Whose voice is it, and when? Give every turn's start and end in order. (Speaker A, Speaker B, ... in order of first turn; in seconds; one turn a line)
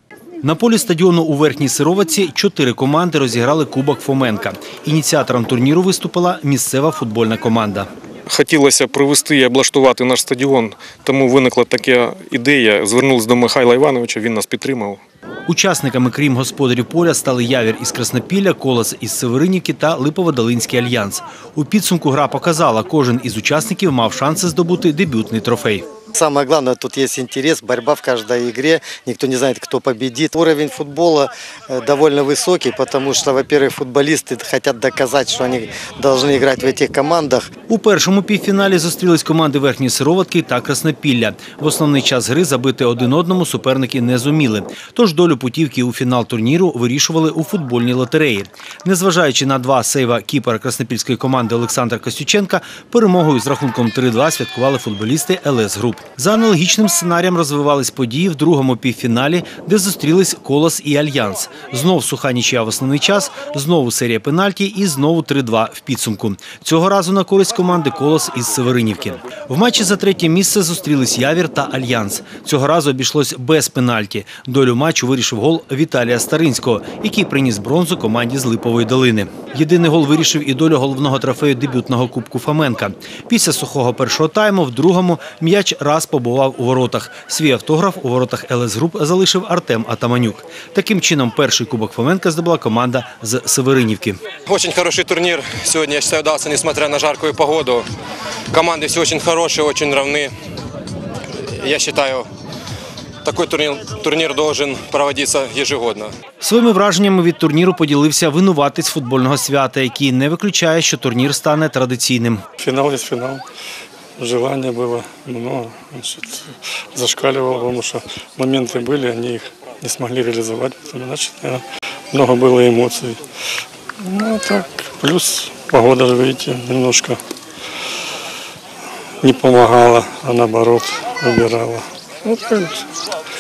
Speaker A: 0.4-7.9
Speaker B: 8.3-15.0
Speaker A: 15.5-25.9
Speaker C: 26.1-37.5
Speaker A: 37.7-94.2
Speaker D: 94.5-97.8
Speaker D: 98.5-100.3
Speaker D: 101.3-102.3
Speaker D: 103.2-106.1
Speaker A: 106.4-112.4
Speaker E: 112.6-113.4
Speaker E: 114.2-123.2
Speaker E: 124.0-127.2
Speaker E: 129.2-132.9